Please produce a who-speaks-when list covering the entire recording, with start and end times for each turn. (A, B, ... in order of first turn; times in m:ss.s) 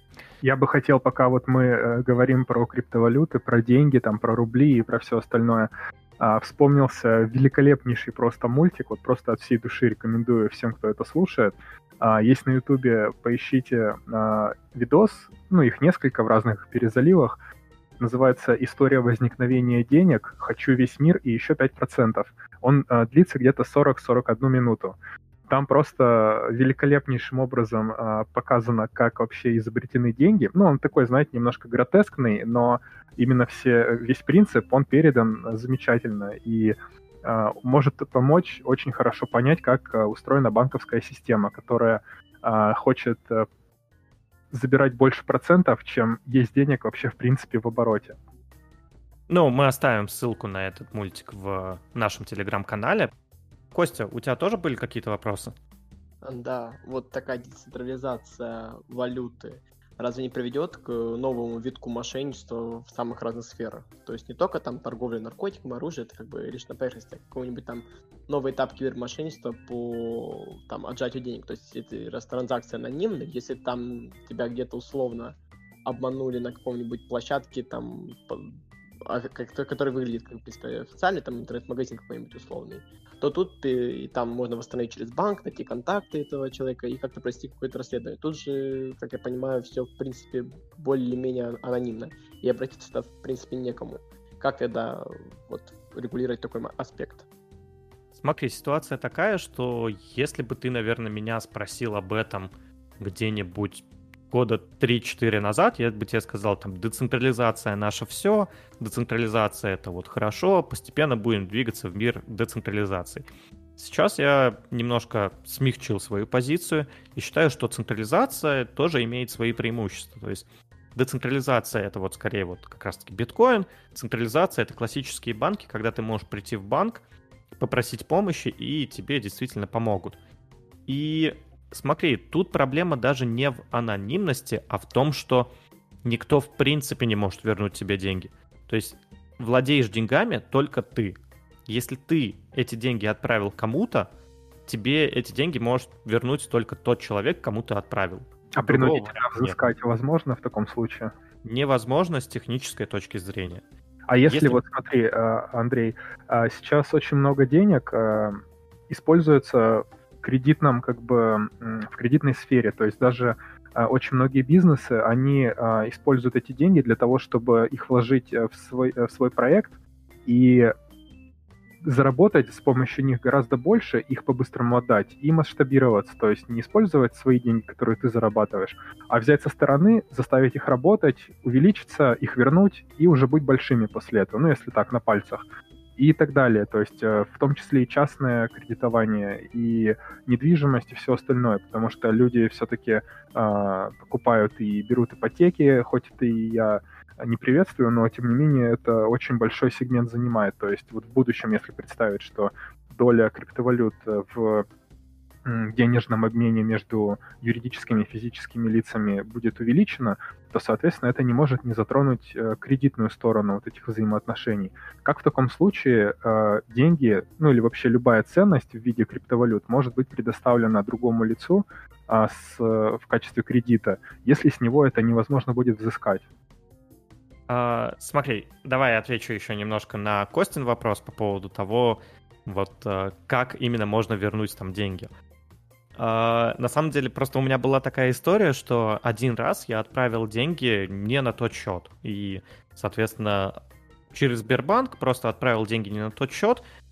0:00.4-0:17.3 A
0:18.0-0:25.0 A
0:25.5-0:43.5 A
0:44.5-0:48.2 A
0:49.3-0:53.1 B
0:53.7-0:55.6 B
0:56.2-1:37.3 C
1:38.1-1:53.2 B
1:53.8-2:07.0 B
2:07.6-2:10.2 B
2:10.9-2:15.5 B
2:16.0-2:24.1 B
2:24.7-2:29.6 B
2:28.6-2:31.1 A
2:31.4-2:33.6 B
2:34.1-2:50.7 A
2:34.3-2:34.6 B
2:51.8-3:05.4 A
3:06.0-3:24.6 A
3:25.4-3:46.2 A
3:47.5-3:55.1 B
3:56.0-4:03.6 B
4:04.1-4:06.6 B